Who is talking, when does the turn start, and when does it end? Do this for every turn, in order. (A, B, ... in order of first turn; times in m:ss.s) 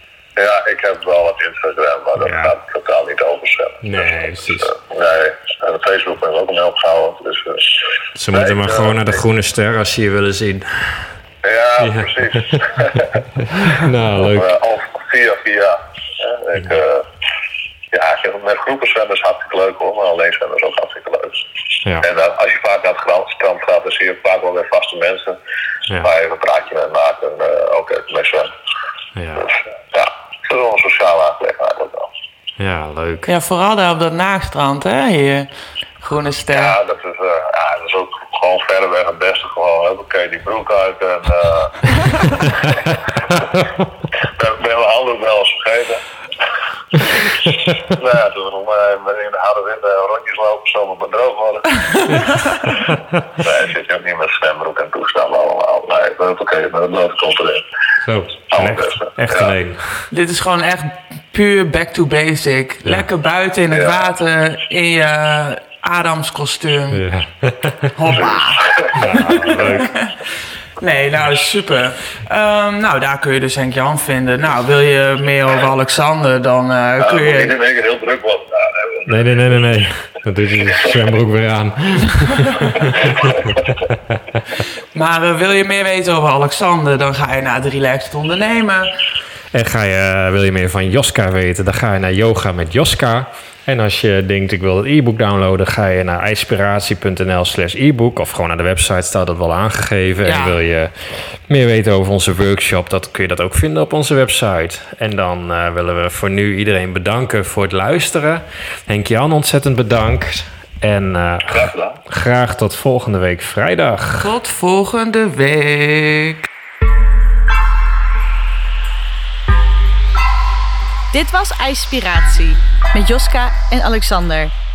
0:00.4-0:09.2 A
0:02.2-0:02.5 B
0:03.8-0:04.7 B
0:08.2-0:11.1 B
0:11.4-0:13.2 A
0:11.8-0:12.6 B
0:13.4-0:14.6 B
0:14.2-0:17.1 A
0:17.9-0:21.4 A
0:22.0-0:25.4 A
0:26.0-0:28.5 A
0:29.2-0:29.5 B
0:29.4-0:32.1 A
0:32.6-0:33.3 B
0:33.3-0:35.5 C
0:36.0-0:36.8 C
0:36.5-0:42.8 A
0:44.4-0:46.0 A
0:47.1-0:52.8 A
0:53.3-0:57.6 A
0:58.0-1:00.1 B
0:58.5-0:59.6 A
1:00.1-1:07.0 C
1:03.7-1:04.0 A
1:06.9-1:08.0 B
1:08.0-1:08.7 C
1:08.1-1:09.0 A
1:08.9-1:09.9 B
1:09.6-1:10.1 C
1:10.8-1:17.5 C
1:17.0-1:19.2 A
1:19.1-1:23.9 B
1:24.9-1:28.9 C
1:29.5-1:54.3 B
1:40.2-1:40.6 C
1:51.5-1:52.0 A
1:54.2-1:56.5 C
2:01.1-2:04.5 D